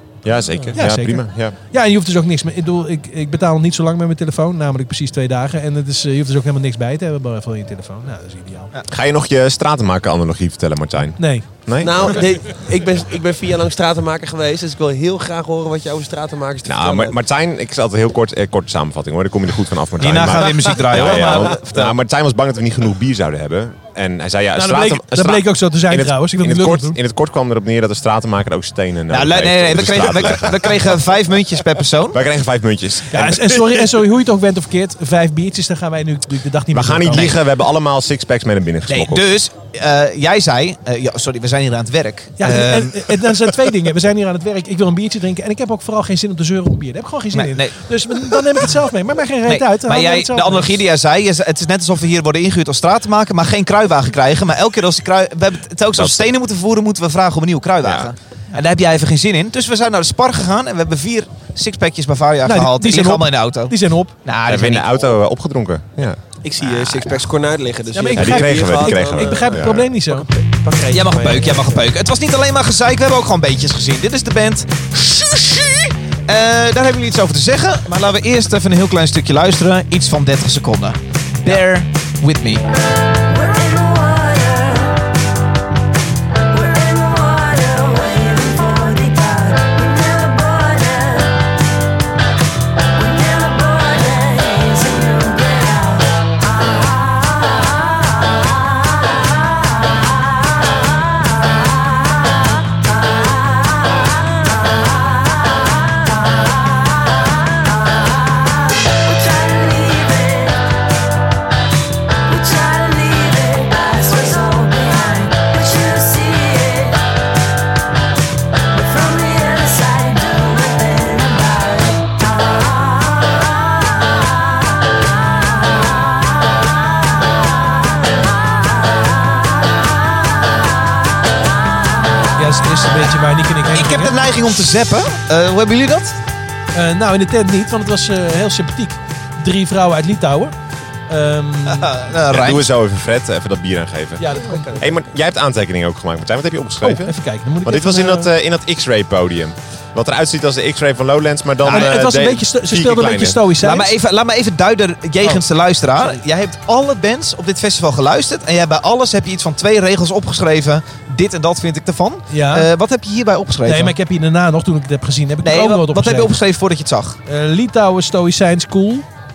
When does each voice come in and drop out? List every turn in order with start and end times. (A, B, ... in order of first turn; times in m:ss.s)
0:00.2-0:01.6 A
0:00.7-0:08.7 B
0:08.9-0:12.3 A
0:11.2-0:11.5 B
0:11.8-0:17.2 C
0:16.6-0:30.9 A
0:20.0-0:21.6 D
0:21.0-0:22.0 C
0:24.6-0:27.0 B
0:29.1-0:32.2 D
0:32.1-0:33.9 A
0:33.1-0:37.4 B
0:36.7-0:39.3 A
0:38.9-0:43.2 D
0:42.4-0:50.8 B
0:47.3-0:47.8 D
0:49.5-1:04.9 D
0:55.9-0:56.3 A
0:57.8-0:58.1 A
1:02.5-1:04.1 B
1:04.5-1:06.2 A
1:06.4-1:11.9 C
1:06.6-1:07.3 D
1:07.9-1:10.3 B
1:08.2-1:09.8 A
1:10.9-1:22.6 D
1:23.3-1:25.0 E
1:26.5-1:31.5 E
1:33.0-1:40.1 E
1:40.7-1:50.8 E
1:52.3-1:57.0 E
1:58.7-2:03.5 E
2:12.4-2:14.2 B
2:13.7-2:16.2 D
2:16.7-2:20.5 B
2:21.1-2:22.1 B
2:21.7-2:22.7 D
2:22.3-2:33.4 A
2:24.2-2:24.8 B
2:24.3-2:25.0 C
2:26.8-2:28.3 B
2:31.7-2:34.0 B
2:33.6-2:43.9 D
2:42.3-2:42.7 B
2:43.7-2:46.3 B
2:45.4-2:47.2 D
2:47.3-2:49.1 B